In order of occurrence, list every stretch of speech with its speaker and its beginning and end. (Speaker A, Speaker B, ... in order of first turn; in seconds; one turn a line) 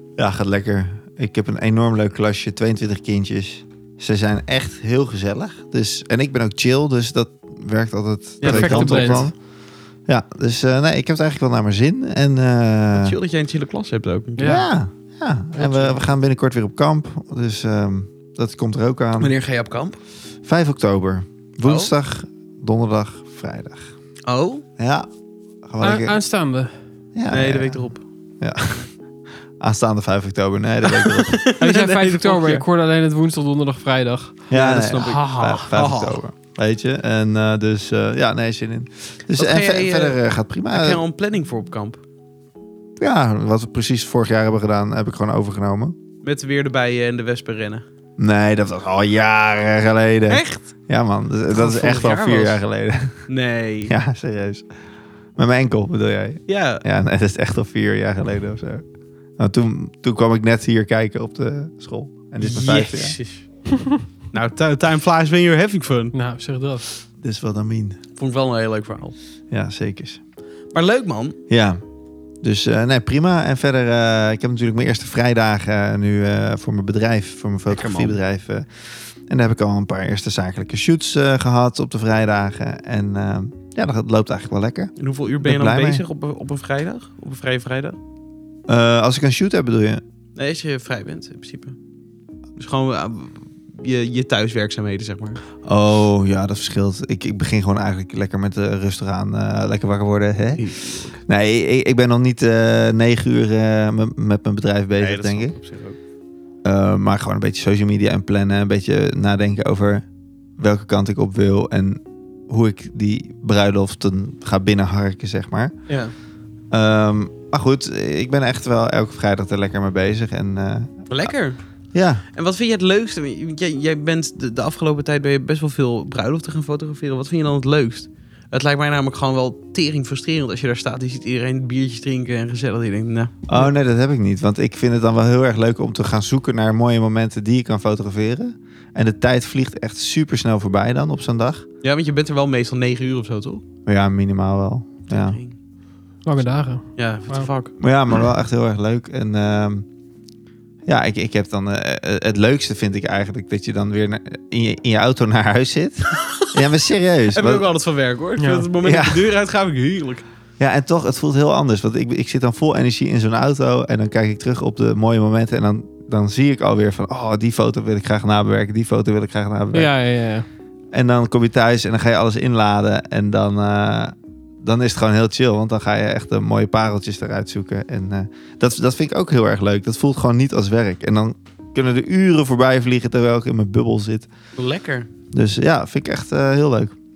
Speaker A: 0.2-9.3
Speaker B: 8.4-9.3
Speaker C: 8.4-9.3
Speaker A: 10.1-13.2
Speaker B: 12.9-14.6
Speaker C: 14.4-14.7
Speaker A: 14.4-19.3
Speaker C: 15.5-16.0
Speaker B: 19.2-20.0
Speaker A: 20.4-23.9
Speaker B: 21.6-21.9
Speaker B: 24.3-24.6
Speaker A: 24.8-25.1
Speaker A: 25.6-26.2
Speaker C: 25.8-26.7
Speaker A: 27.1-28.9
Speaker B: 27.3-28.0
Speaker A: 29.6-31.4
Speaker B: 31.0-32.6
Speaker C: 31.6-34.4
Speaker A: 34.5-41.0
Speaker B: 34.5-36.2
Speaker C: 34.9-35.6
Speaker B: 39.4-40.2
Speaker B: 40.7-42.0
Speaker A: 43.0-46.0
Speaker B: 46.2-47.8
Speaker A: 48.2-53.2
Speaker B: 50.3-50.7
Speaker B: 51.5-52.6
Speaker B: 53.3-53.9
Speaker A: 53.9-54.6
Speaker A: 55.4-58.8
Speaker B: 56.5-56.8
Speaker A: 59.4-63.2
Speaker B: 62.4-63.5
Speaker C: 63.7-64.0
Speaker B: 64.3-66.1
Speaker C: 66.1-66.9
Speaker A: 67.2-68.0
Speaker B: 68.2-69.1
Speaker A: 69.5-70.2
Speaker B: 70.7-71.4
Speaker A: 71.5-71.8
Speaker A: 72.4-86.0
Speaker B: 77.7-78.2
Speaker B: 85.0-88.0
Speaker A: 88.7-90.0
Speaker B: 90.3-91.8
Speaker B: 92.6-95.4
Speaker A: 95.6-105.5
Speaker B: 100.6-101.2
Speaker B: 105.0-106.0
Speaker A: 106.6-110.0
Speaker A: 110.6-115.7
Speaker B: 115.9-116.1
Speaker A: 116.7-120.9
Speaker B: 121.1-121.6
Speaker A: 121.9-122.2
Speaker B: 122.3-133.4
Speaker A: 133.5-141.6
Speaker B: 141.8-143.6
Speaker A: 143.8-145.4
Speaker B: 145.1-145.5
Speaker C: 146.2-147.5
Speaker B: 147.0-147.8
Speaker A: 147.8-149.8
Speaker A: 150.8-157.7
Speaker B: 156.2-156.6
Speaker B: 157.3-160.2
Speaker C: 158.4-158.7
Speaker A: 158.8-159.3
Speaker A: 160.6-169.9
Speaker C: 169.7-170.4
Speaker A: 170.9-184.3
Speaker B: 184.6-185.1
Speaker A: 185.3-186.9